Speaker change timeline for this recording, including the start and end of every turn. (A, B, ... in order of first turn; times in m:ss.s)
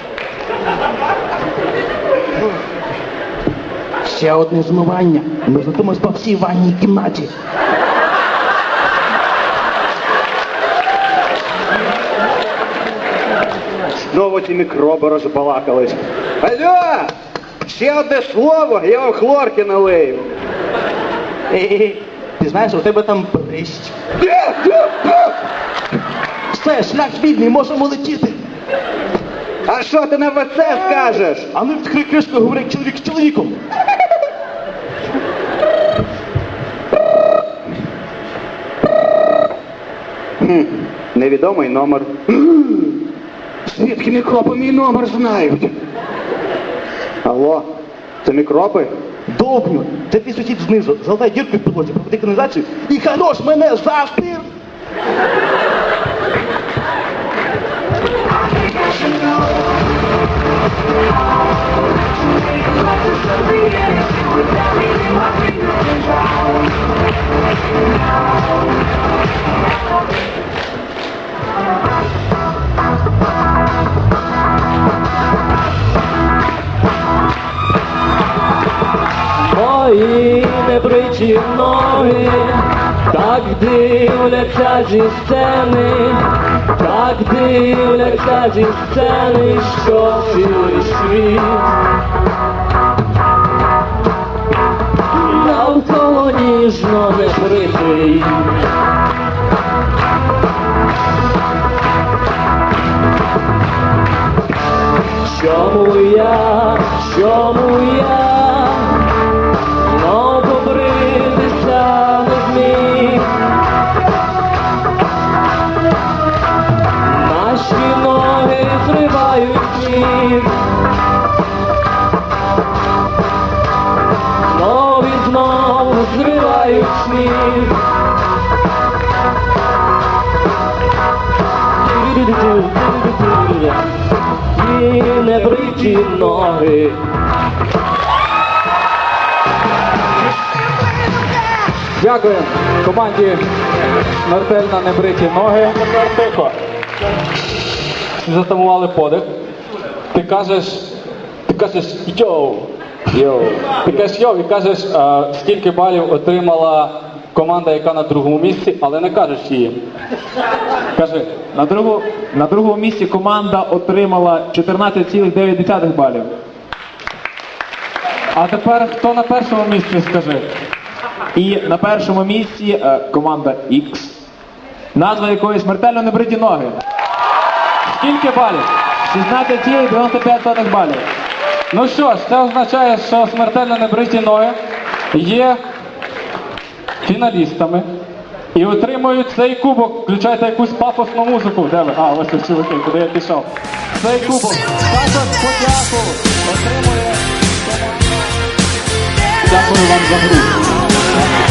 0:04.0-0:07.3 A
0:14.1-0:17.1 B
0:17.6-0:20.2 B
0:21.5-0:23.9 A
0:24.2-0:25.3 B
0:26.5-0:28.4 A
0:29.7-0:31.4 B
0:31.5-0:33.6 A
0:40.4-0:42.9 B
0:43.7-0:45.7 B
0:47.2-0:47.7 B
0:48.2-0:48.9 B
0:49.3-0:54.4 A
1:19.4-1:31.8 C
1:35.1-1:38.5 C
1:45.2-1:49.1 C
1:49.8-1:53.4 C
1:57.1-2:00.6 C
2:04.5-2:07.8 C
2:11.8-2:13.9 C
2:14.5-2:17.0 C
2:22.0-2:23.4 D
2:24.2-2:26.5 D
2:28.2-2:29.3 D
2:30.1-2:30.8 D
2:31.5-2:39.7 D
2:40.9-2:41.3 D
2:41.5-2:46.3 E
2:48.3-2:50.5 D
2:51.3-2:54.2 E
2:54.9-2:56.8 E
2:57.9-2:58.6 D
2:59.0-3:00.5 E
3:00.4-3:01.0 D
3:01.7-3:04.5 D
3:05.1-3:05.6 D
3:07.0-3:07.8 D
3:08.5-3:18.1 D
3:19.4-3:20.6 D